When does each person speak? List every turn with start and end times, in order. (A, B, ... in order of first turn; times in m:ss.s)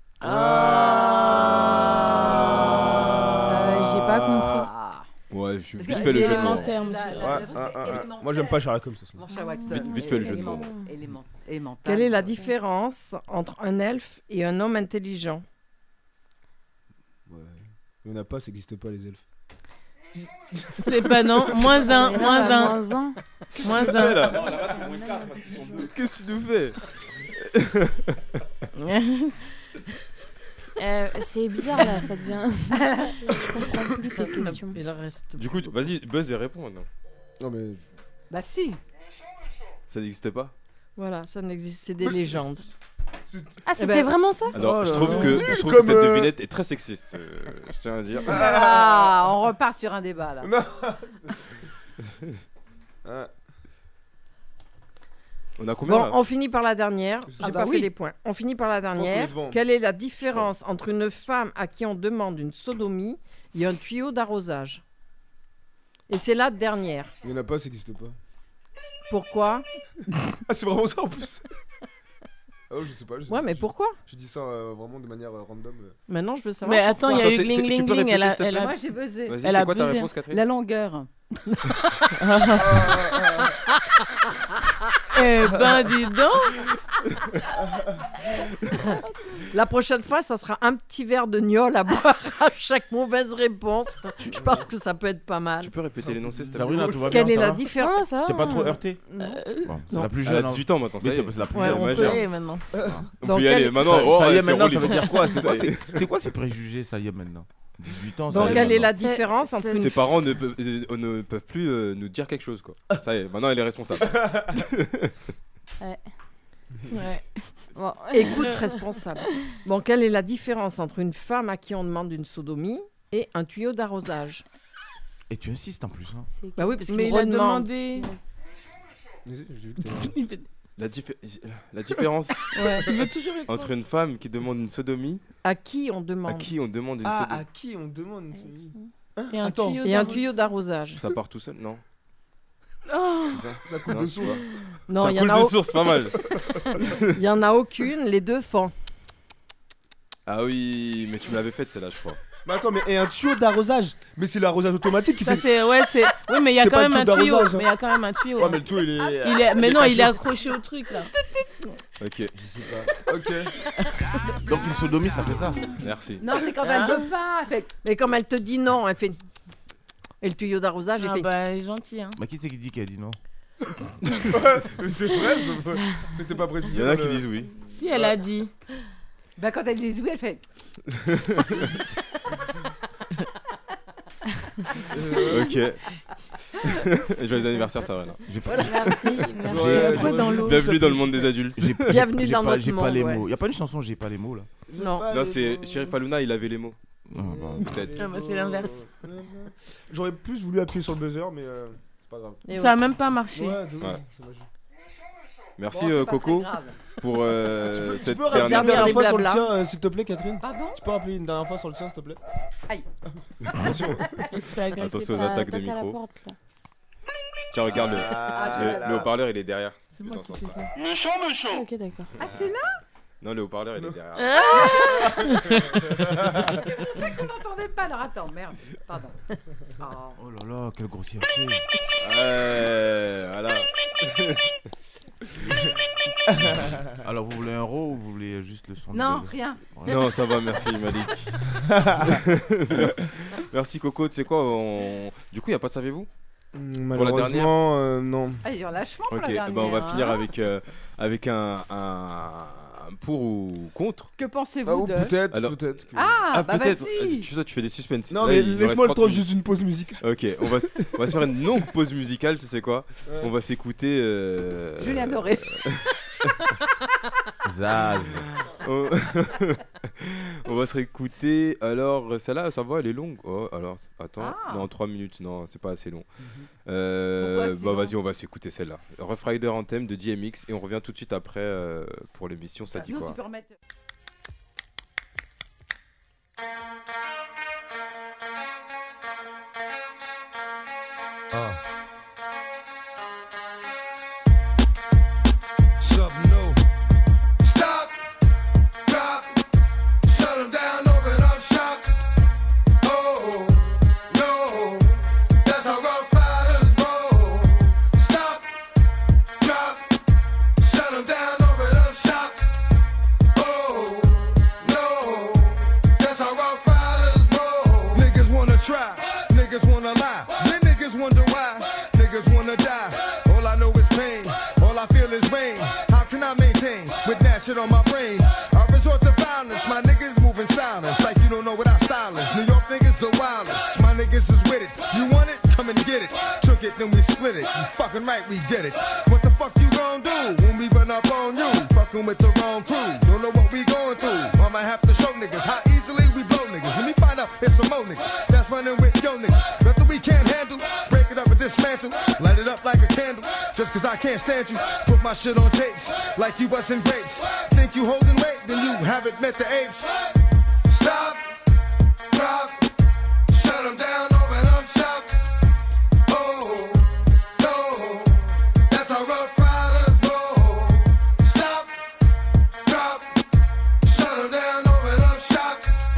0:00.2-0:02.3 A
0:00.2-0:01.4 B
0:02.2-0:04.7 B
0:03.5-0:04.7 C
0:04.5-0:05.1 D
0:05.3-0:06.7 E
0:05.8-0:12.4 D
0:05.8-0:07.8 A
0:07.2-0:09.2 B
0:09.3-0:10.9 C
0:09.7-0:10.7 E
0:11.8-0:15.4 F
0:17.3-0:19.2 B
0:20.8-0:22.9 A
0:21.9-0:23.2 C
0:23.6-0:24.6 A
0:23.6-0:25.9 B
0:25.7-0:26.8 E
0:27.5-0:28.2 E
0:28.8-0:29.5 A
0:30.8-0:34.8 C
0:32.8-0:33.3 D
0:34.2-0:35.7 F
0:35.4-0:36.9 E
0:37.4-0:37.8 B
0:38.3-0:38.8 D
0:39.9-0:40.5 E
0:41.0-0:42.7 F
0:43.3-0:43.6 B
0:43.7-0:44.6 C
0:43.8-0:44.1 F
0:44.5-0:45.5 A
0:44.5-0:48.4 E
0:45.0-0:46.3 B
0:48.3-0:50.5 D
0:48.3-0:49.2 B
0:50.4-0:51.4 B
0:53.0-0:53.3 B
0:55.6-0:56.2 E
0:55.8-1:04.8 F
0:57.3-0:57.7 B
0:57.4-0:57.9 D
0:59.0-0:59.6 B
1:06.1-1:07.1 F
1:07.2-1:08.2 B
1:09.1-1:09.7 F
1:10.5-1:11.4 B
1:12.7-1:16.0 B
1:13.3-1:14.0 F
1:16.1-1:17.1 F
1:16.6-1:18.8 A
1:17.1-1:18.6 E
1:18.5-1:19.4 D
1:19.3-1:20.4 E
1:19.4-1:20.1 A
1:20.3-1:21.1 D
1:21.5-1:21.8 F
1:22.2-1:23.0 A
1:22.6-1:23.6 B
1:25.1-1:26.6 A
1:29.5-1:35.7 F
1:34.3-1:34.6 B
1:35.6-1:37.0 E
1:36.0-1:37.4 B
1:36.5-1:37.7 G
1:37.1-1:38.0 F
1:37.8-1:39.4 C
1:38.2-1:39.0 G
1:39.2-1:39.7 A
1:39.6-1:42.2 G
1:40.2-1:42.2 E
1:41.5-1:42.1 F
1:41.8-1:42.7 A
1:43.2-1:46.1 E
1:43.2-1:43.9 F
1:43.8-1:48.9 G
1:48.3-1:50.1 F
1:48.4-1:48.8 E
1:49.0-1:50.0 C
1:49.8-1:55.1 E
1:56.9-1:57.4 A
1:57.7-1:58.7 C
1:58.1-2:04.4 F
2:05.3-2:06.3 G
2:06.4-2:06.8 C
2:06.6-2:07.7 F
2:06.9-2:08.1 A
2:09.3-2:10.1 B
2:09.8-2:10.4 A
2:10.8-2:12.5 E
2:12.5-2:13.7 A
2:13.5-2:15.2 E
2:15.4-2:16.5 F
2:16.3-2:17.4 E
2:17.0-2:19.8 B
2:19.3-2:20.3 A
2:19.8-2:21.0 F
2:21.0-2:21.8 E
2:22.9-2:23.5 A
2:23.3-2:24.4 E
2:23.6-2:24.4 B
2:24.9-2:25.8 F
2:25.0-2:26.2 E
2:26.8-2:27.0 E
2:27.1-2:28.7 F
2:30.3-2:32.2 E
2:32.5-2:35.5 B
2:35.2-2:41.1 A
2:36.2-2:37.7 B
2:38.4-2:40.2 B
2:42.0-2:42.3 E
2:42.4-2:43.5 B
2:44.4-2:45.6 G
2:45.8-2:46.2 E
2:46.2-2:47.7 D
2:46.7-2:47.0 A
2:47.8-2:49.2 F
2:50.2-2:51.3 F
2:51.0-2:52.2 A
2:52.2-2:53.2 G
2:54.3-2:57.3 B
2:56.7-2:57.5 E
2:57.6-2:58.5 A
2:57.9-2:58.2 B
2:59.4-3:00.4 D
3:01.0-3:01.7 E
3:04.9-3:05.6 B
3:05.3-3:05.9 E
3:06.6-3:08.2 E
3:08.3-3:10.1 G
3:08.5-3:10.5 C
3:09.4-3:11.5 B
3:09.5-3:10.6 A
3:10.3-3:11.8 E
3:11.6-3:14.5 G
3:11.9-3:13.3 F
3:14.7-3:16.0 B
3:14.8-3:15.1 F
3:15.1-3:16.8 E
3:17.1-3:17.8 G
3:17.1-3:22.5 B
3:17.6-3:18.0 E
3:18.0-3:18.9 A
3:22.5-3:22.8 F
3:22.5-3:23.6 A
3:23.3-3:24.5 B
3:25.6-3:29.0 E
3:25.7-3:26.8 D
3:27.7-3:32.2 B
3:28.3-3:29.5 F
3:30.4-3:30.8 D
3:33.5-3:34.2 B
3:34.3-3:35.1 A
3:34.8-3:36.0 E
3:34.9-3:36.4 C
3:37.5-3:40.7 E
3:37.7-3:39.1 B
3:38.3-3:39.1 D
3:40.0-3:40.7 A
3:41.4-3:42.1 C
3:42.2-3:42.8 D
3:43.2-3:44.9 E
3:44.2-3:45.8 A
3:45.9-3:46.4 B
3:46.4-3:49.2 D
3:49.8-3:50.2 D
3:50.2-3:51.7 G
3:52.0-3:54.4 E
3:56.9-4:00.2 G
3:58.9-3:59.6 D
3:59.8-4:06.1 E
4:01.7-4:02.1 B
4:06.5-4:08.4 B
4:06.9-4:07.6 E
4:08.4-4:10.3 D
4:09.1-4:14.1 E
4:14.2-4:15.2 D
4:14.7-4:16.3 B
4:15.3-4:15.6 E
4:15.9-4:17.3 D
4:16.3-4:19.3 E
4:18.1-4:20.9 B
4:20.0-4:25.9 E
4:23.1-4:23.3 B
4:24.8-4:25.7 D
4:27.4-4:28.3 G
4:28.5-4:36.0 E
4:34.2-4:34.7 D
4:36.7-4:43.2 E
4:37.2-4:37.9 D
4:42.7-4:43.6 D
4:51.3-4:51.6 H
4:55.8-4:56.6 H
4:57.4-4:58.1 H
4:58.8-4:59.4 H
5:00.0-5:01.9 H
5:02.8-5:08.6 H
5:09.4-5:09.9 H
5:10.6-5:12.4 H
5:13.3-6:00.1 H
6:00.6-6:01.4 H
6:02.1-6:02.7 H
6:03.3-6:05.1 H
6:06.1-6:11.9 H
6:12.6-6:13.2 H
6:13.8-6:15.7 H